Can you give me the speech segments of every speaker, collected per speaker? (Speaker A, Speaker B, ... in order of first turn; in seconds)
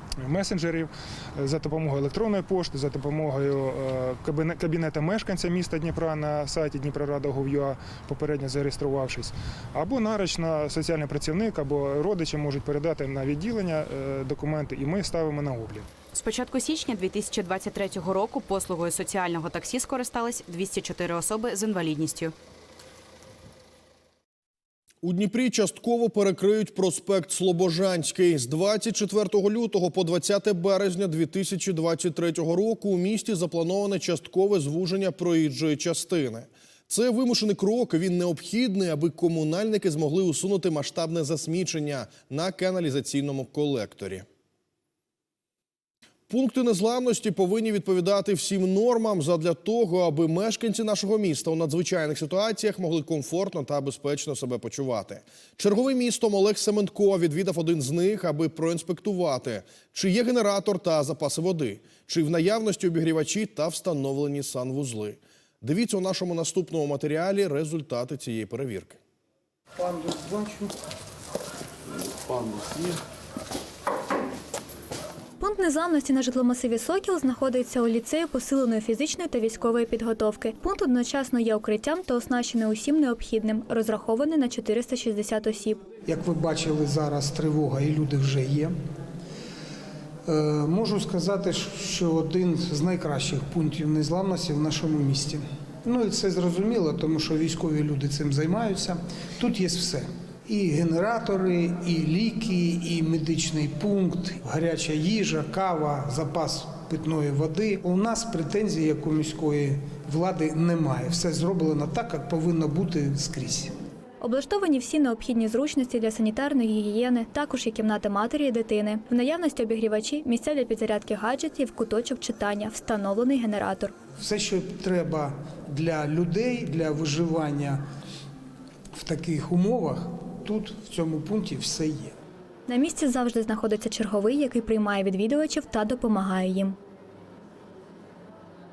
Speaker A: 0.2-15.9
Speaker B: 16.1-22.3
Speaker C: 25.0-44.2, 46.3-69.0
Speaker D: 69.8-70.7, 86.1-88.7, 90.3-113.7, 124.2-127.8, 129.0-132.1
Speaker E: 75.4-85.8, 114.2-123.9, 132.7-136.8